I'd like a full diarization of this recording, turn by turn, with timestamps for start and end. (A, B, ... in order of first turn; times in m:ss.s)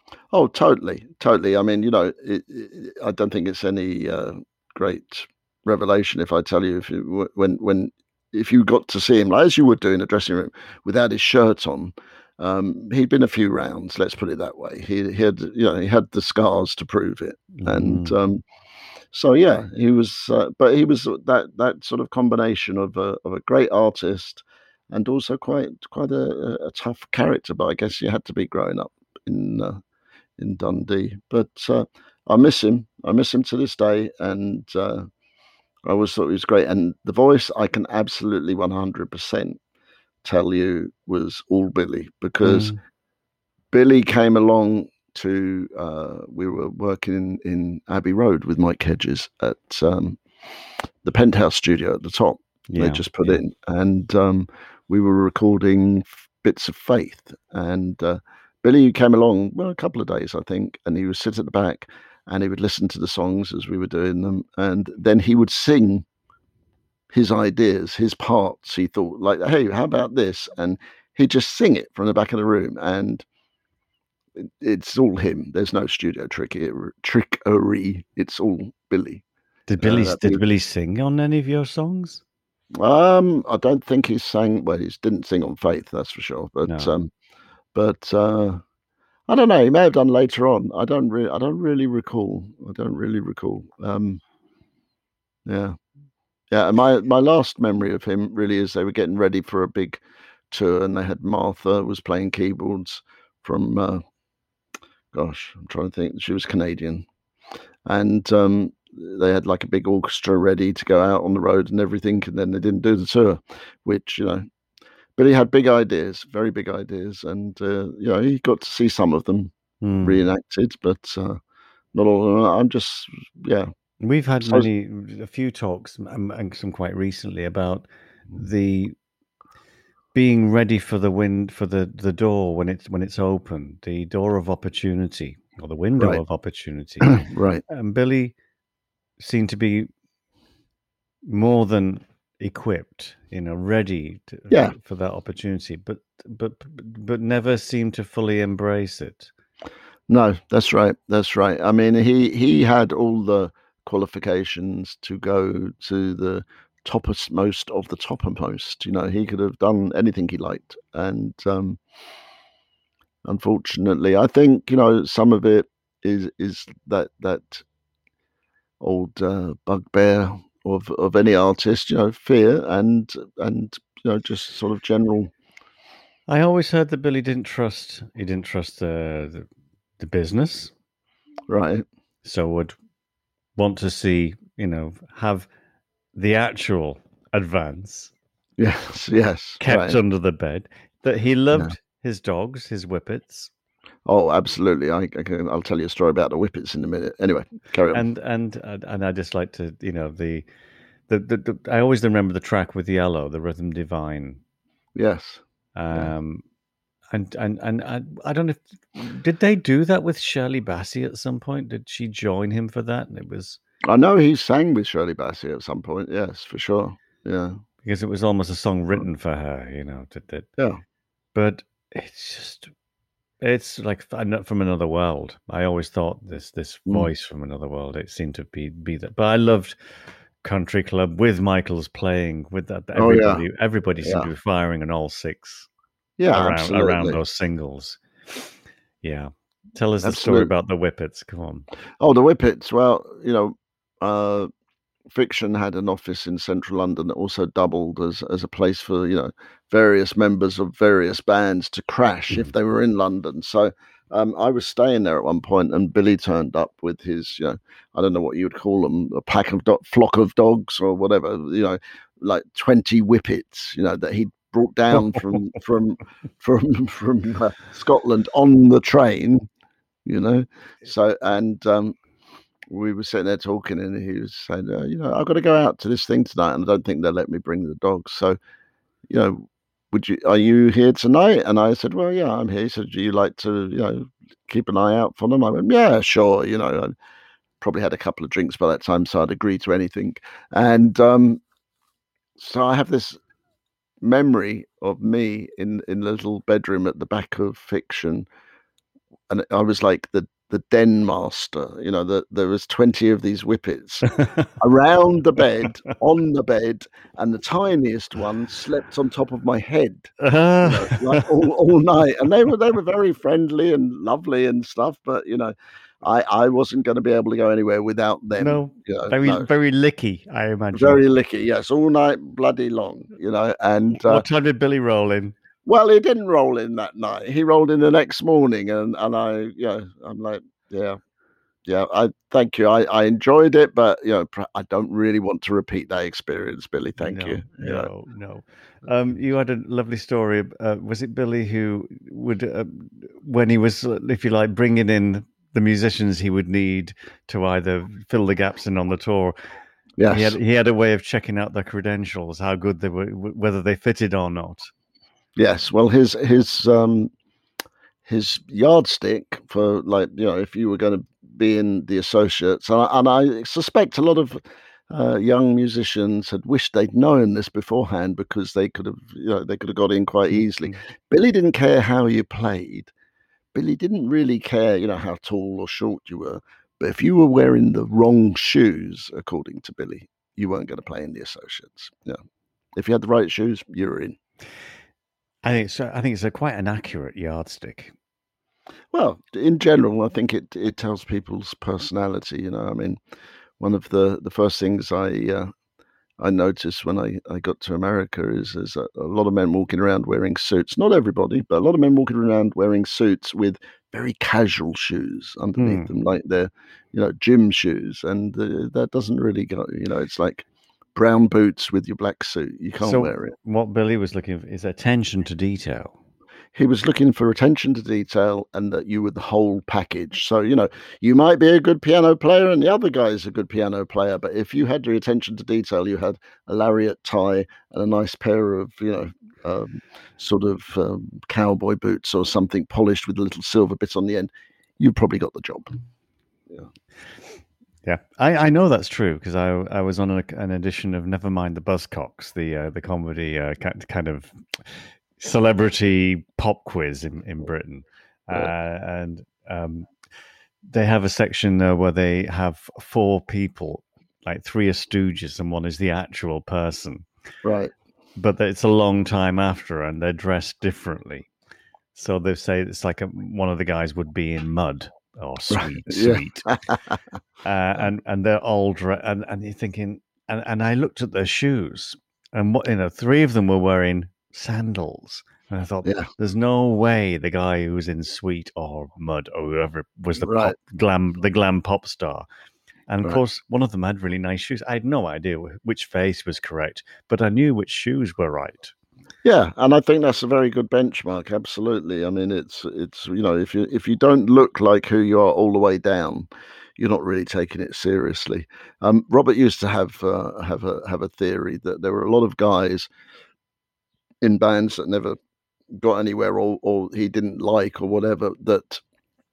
0:00.3-0:18.4 A
0:17.6-0:18.2 B
0:19.1-0:29.8 A
0:30.4-0:35.1 A
0:35.8-0:39.6 A
0:40.2-0:42.8 A
0:42.4-0:42.8 B
0:43.7-0:50.2 A
0:51.0-1:06.0 A
0:52.7-0:53.4 B
1:07.1-1:13.2 A
1:14.4-1:19.2 A
1:19.7-1:22.2 B
1:19.8-1:20.4 A
1:22.8-1:27.1 A
1:26.6-1:26.9 B
1:27.7-1:28.6 A
1:29.3-1:34.2 A
1:35.4-1:35.8 A
1:36.5-1:44.0 A
1:45.1-1:47.0 A
1:47.8-1:54.5 A
1:55.2-2:01.4 A
1:59.8-2:00.2 B
2:01.9-2:03.7 A
2:04.0-2:08.9 B
2:04.4-2:04.7 A
2:10.1-2:18.3 B
2:17.0-2:17.6 A
2:19.2-2:19.9 B
2:21.3-2:29.3 B
2:24.5-2:24.7 A
2:30.1-2:41.8 A
2:43.2-2:47.6 A
2:48.8-2:55.3 A
2:56.3-2:59.5 B
3:00.0-3:00.7 B
3:01.5-3:01.8 A
3:02.2-3:02.8 B
3:03.6-3:05.5 B
3:06.1-3:08.1 B
3:08.6-3:10.0 A
3:09.6-3:13.5 B
3:14.0-3:18.0 A
3:17.9-3:20.4 B
3:21.1-3:24.4 B
3:25.0-3:26.1 A
3:25.7-3:26.4 B
3:27.1-3:33.6 B
3:33.8-3:37.6 A
3:37.8-3:40.5 B
3:41.3-3:42.7 B
3:43.4-3:49.8 B
3:50.4-3:55.7 B
3:52.9-3:53.4 A
3:54.0-3:54.3 A
3:56.2-3:57.2 A
3:56.3-3:58.0 B
3:59.0-4:01.7 B
4:00.0-4:00.5 A
4:02.0-4:04.5 A
4:05.1-4:29.5 A
4:30.0-4:32.0 A
4:32.7-4:38.4 A
4:39.1-4:46.9 A
4:47.6-4:51.4 A
4:52.4-4:53.2 A
4:54.0-4:58.3 A
4:59.3-5:19.5 A
5:04.1-5:04.5 B
5:10.2-5:11.2 B
5:18.4-5:21.0 B
5:20.7-5:24.2 A
5:24.0-5:25.3 B
5:25.6-5:31.0 A
5:31.6-5:37.9 A
5:37.0-5:49.4 B
5:50.0-5:50.4 A
5:50.1-5:54.7 B
5:55.4-5:57.1 A
5:58.0-6:12.9 A
6:10.3-6:10.8 B
6:13.5-6:22.2 A
6:22.8-6:24.2 A
6:25.4-6:27.9 B
6:28.9-6:33.0 A
6:33.6-6:35.5 A
6:36.2-6:53.3 A
6:45.6-6:45.9 B
6:52.8-6:56.0 B
6:56.5-7:15.8 A
7:17.8-7:29.9 B
7:30.7-7:37.0 B
7:37.4-7:37.7 A
7:38.2-7:41.3 B
7:41.9-7:46.4 B
7:45.5-7:47.0 A
7:47.4-8:02.2 B
7:55.8-7:56.1 A
8:00.1-8:00.6 A
8:02.9-8:08.7 B
8:09.2-8:16.3 A
8:16.8-8:22.9 A
8:24.2-8:25.2 A
8:25.8-8:28.8 A